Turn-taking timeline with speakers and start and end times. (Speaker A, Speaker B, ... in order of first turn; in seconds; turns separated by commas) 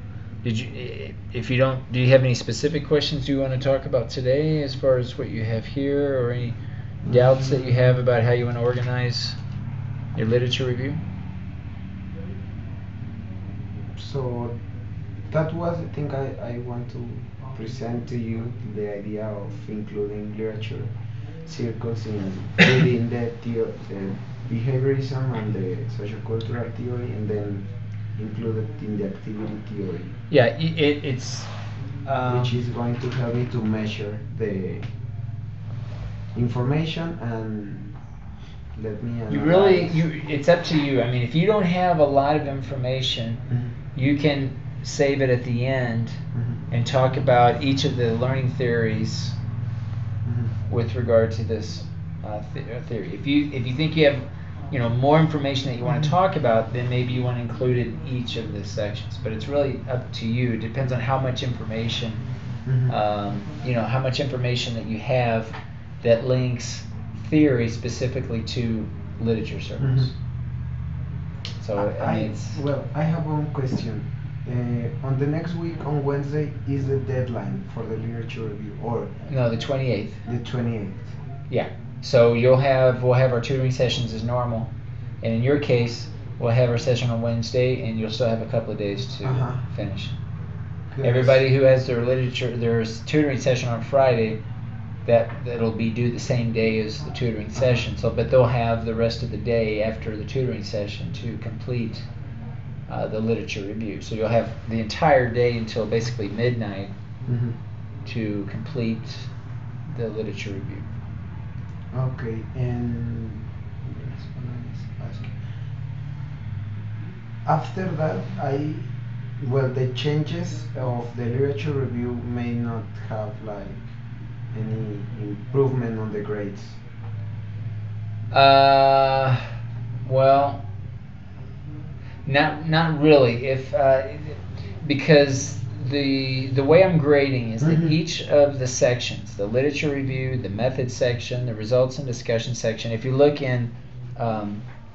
Speaker A: 0.4-9.4, Speaker B: 7.0-8.0, Speaker A: 10.1-11.0, Speaker B: 13.9-14.5, Speaker B: 15.3-20.9, Speaker B: 21.4-30.2, Speaker A: 30.3-31.5, Speaker A: 32.0-32.5, Speaker B: 32.2-34.9, Speaker B: 36.3-37.9, Speaker B: 38.8-40.0, Speaker A: 39.3-43.4, Speaker B: 43.5-43.7, Speaker A: 43.9-46.2, Speaker B: 46.3-46.6, Speaker A: 46.7-49.4, Speaker B: 50.2-50.5, Speaker A: 50.7-62.2, Speaker B: 55.8-56.1, Speaker B: 62.6-63.0, Speaker A: 62.9-70.1, Speaker B: 69.8-70.1, Speaker A: 71.6-72.6, Speaker B: 71.7-79.1, Speaker A: 79.3-80.2, Speaker B: 80.2-81.2, Speaker A: 81.5-84.7, Speaker A: 85.2-90.2, Speaker B: 89.2-89.6, Speaker B: 90.9-91.4, Speaker A: 91.0-94.4, Speaker A: 95.0-102.0, Speaker B: 97.6-97.8, Speaker A: 102.9-106.9, Speaker B: 107.2-107.6, Speaker A: 108.0-109.3, Speaker A: 109.9-110.9, Speaker B: 111.9-115.4, Speaker B: 117.4-123.9, Speaker B: 124.5-126.8, Speaker A: 128.3-129.4, Speaker A: 130.0-130.6, Speaker A: 132.2-144.6, Speaker B: 137.6-138.0